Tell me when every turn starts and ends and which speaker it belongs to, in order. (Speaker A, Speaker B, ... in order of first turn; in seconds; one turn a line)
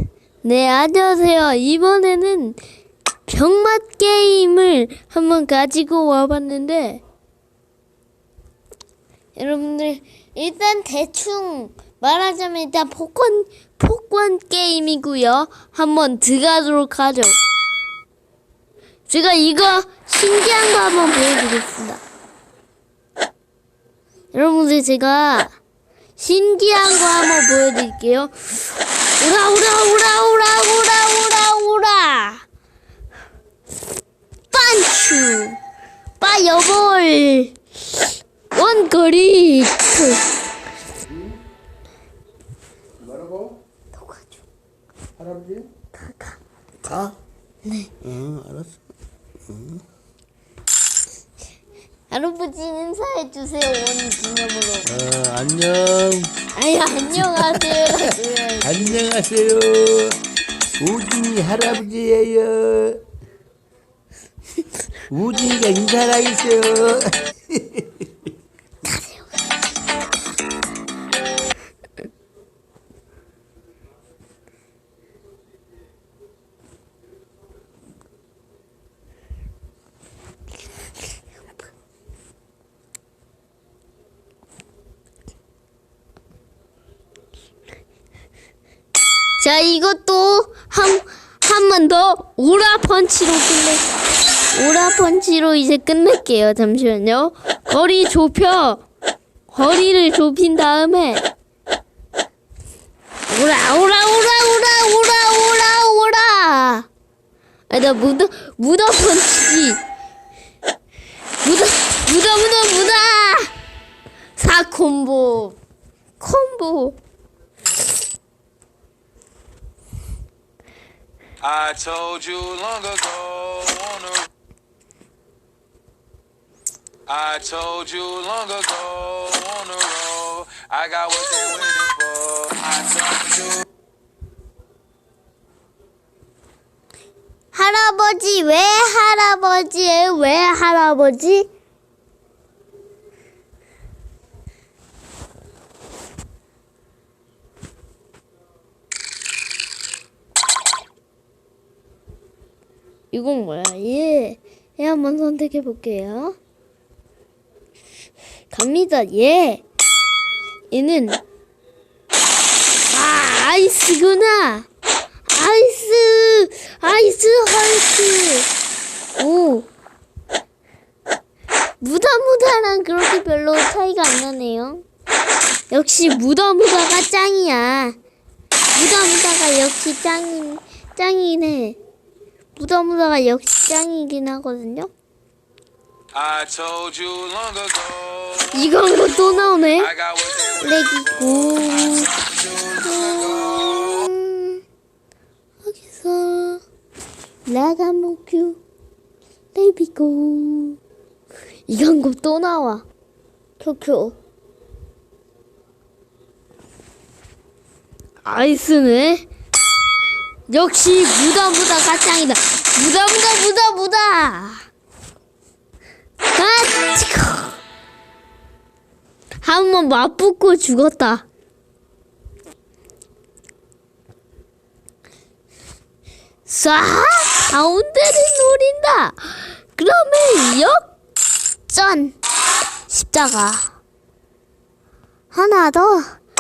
Speaker A: 0.4-2.6
Speaker A: 3.3-7.0
Speaker A: 9.4-17.4
Speaker A: 19.1-22.0
Speaker A: 24.3-25.5
Speaker A: 26.2-28.3
Speaker A: 29.2-32.4
Speaker A: 34.5-35.6
Speaker A: 36.2-37.6
Speaker A: 38.5-40.2
Speaker B: 43.1-43.5
Speaker A: 43.9-44.4
Speaker B: 45.2-45.7
Speaker A: 46.0-46.4
Speaker B: 46.9-47.1
Speaker A: 47.6-47.9
Speaker B: 48.0-48.8
Speaker B: 49.5-49.8
Speaker A: 52.1-54.9
Speaker B: 54.9-56.3
Speaker A: 56.5-59.1
Speaker B: 57.3-57.6
Speaker B: 58.6-60.2
Speaker B: 60.7-63.0
Speaker B: 65.1-67.9
Speaker A: 68.9-69.2
Speaker A: 89.4-93.8
Speaker A: 94.5-98.8
Speaker A: 99.5-101.2
Speaker A: 103.3-106.9
Speaker A: 107.7-109.8
Speaker A: 111.4-113.5
Speaker A: 114.4-115.6
Speaker A: 116.2-117.0
Speaker C: 121.4-124.3
Speaker C: 127.1-133.6
Speaker A: 137.5-141.5
Speaker A: 153.1-156.4
Speaker A: 158.5-159.6
Speaker A: 160.7-161.2
Speaker A: 162.9-164.7
Speaker A: 165.3-168.5
Speaker A: 169.2-169.7
Speaker A: 171.8-174.8
Speaker A: 175.7-178.0
Speaker A: 178.7-181.8
Speaker A: 182.6-184.9
Speaker C: 186.2-188.5
Speaker A: 188.5-189.9
Speaker C: 189.9-191.5
Speaker A: 190.6-194.6
Speaker A: 195.6-196.6
Speaker A: 197.5-198.6
Speaker A: 199.6-200.8
Speaker A: 201.7-202.8
Speaker A: 203.6-204.2
Speaker A: 208.2-209.3
Speaker A: 210.5-214.7
Speaker A: 216.3-217.6
Speaker A: 219.4-221.2
Speaker A: 226.5-230.9
Speaker A: 231.7-232.2
Speaker A: 232.9-233.8
Speaker A: 235.3-236.2